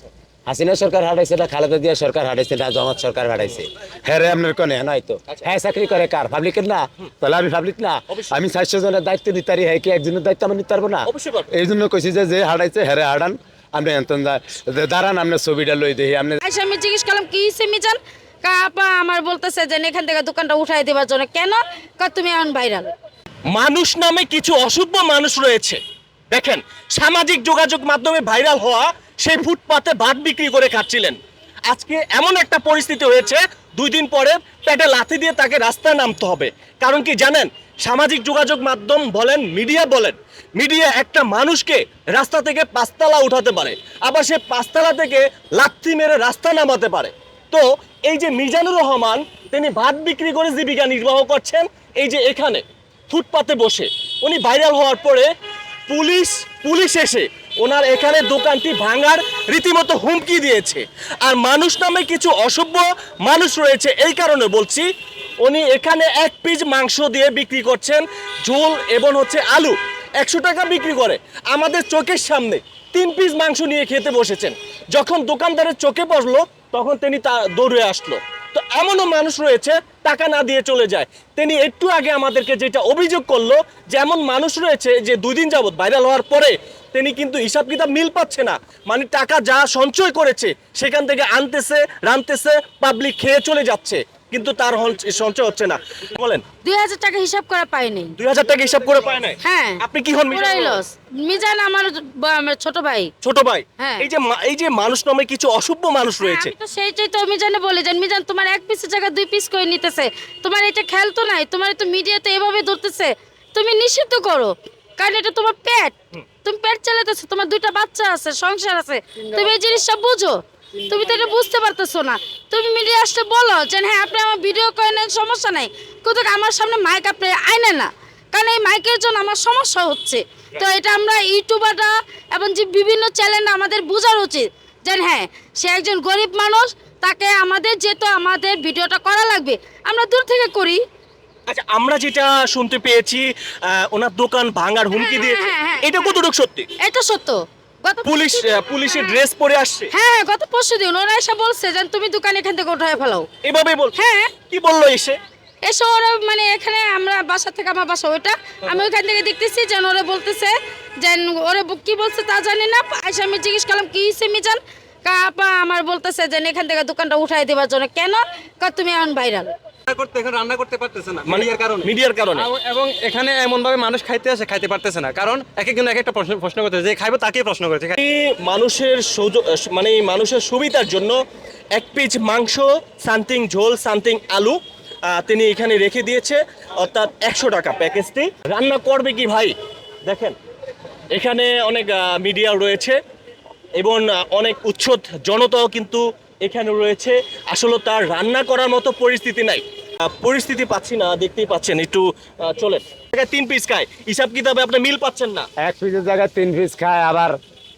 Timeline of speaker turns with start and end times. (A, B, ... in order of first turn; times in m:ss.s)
0:00.5-0:16.4 A
0:08.1-0:08.4 B
0:11.1-0:11.5 B
0:16.4-0:22.9 C
0:23.5-0:25.8 B
0:26.3-0:31.2 B
0:31.7-0:55.3 B
0:55.9-1:04.9 B
1:05.4-1:36.4 B
1:36.6-1:38.2 C
1:38.2-1:40.8 B
1:39.4-1:43.1 C
1:43.2-1:46.5 B
1:43.8-1:44.1 C
1:46.2-2:20.8 C
2:21.5-2:26.7 B
2:25.0-2:26.2 C
2:26.8-2:29.2 C
2:28.0-2:29.9 B
2:29.9-2:33.3 C
2:33.4-2:34.0 B
2:34.0-2:34.3 C
2:34.5-2:35.2 B
2:35.6-2:49.5 C
2:49.9-2:58.0 D
2:51.3-2:52.5 B
2:58.0-3:01.2 B
3:01.7-3:09.5 B
3:10.1-3:10.4 B
3:11.1-3:13.0 B
3:13.8-3:25.5 B
3:25.6-3:27.4 A